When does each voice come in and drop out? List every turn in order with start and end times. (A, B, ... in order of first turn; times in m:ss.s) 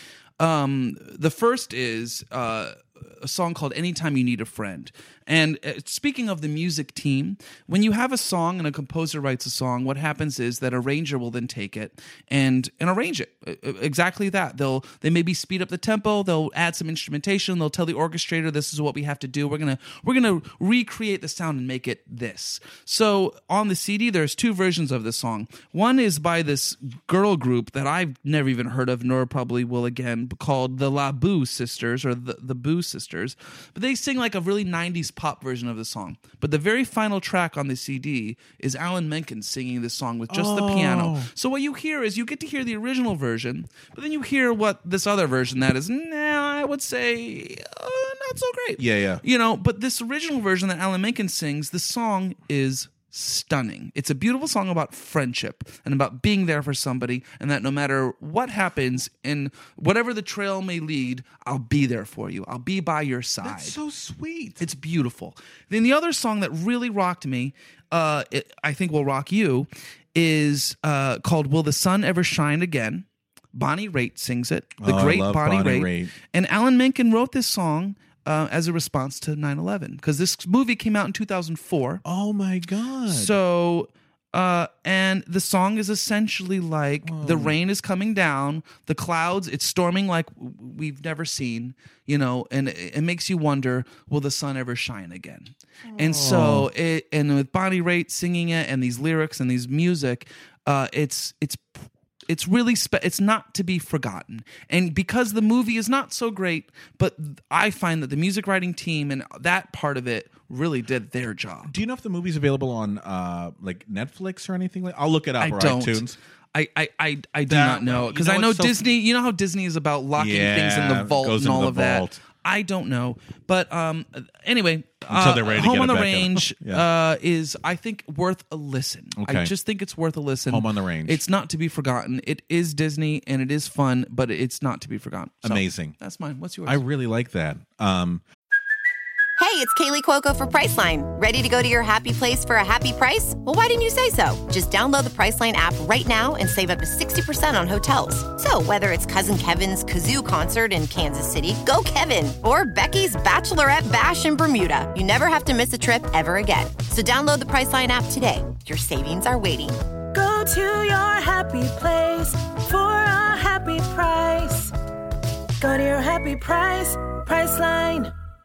0:00.4-1:03.8 A
0:40.3-0:41.3 B
0:48.8-0:49.2 B
1:03.4-1:04.6 B
1:04.6-1:22.0 A
1:14.8-1:16.1 B
1:22.0-1:23.4 B
1:23.1-1:51.7 A
1:27.0-1:27.5 B
1:35.9-1:36.7 B
1:51.6-1:56.2 B
1:55.4-2:16.8 A
1:57.5-1:58.8 B
2:00.2-2:02.2 B
2:05.1-2:06.9 B
2:09.2-2:09.5 B
2:10.5-2:11.2 B
2:15.4-2:16.0 B
2:16.6-2:18.2 B
2:19.4-2:39.8 C
2:40.1-2:44.7 D
2:45.6-2:48.1 D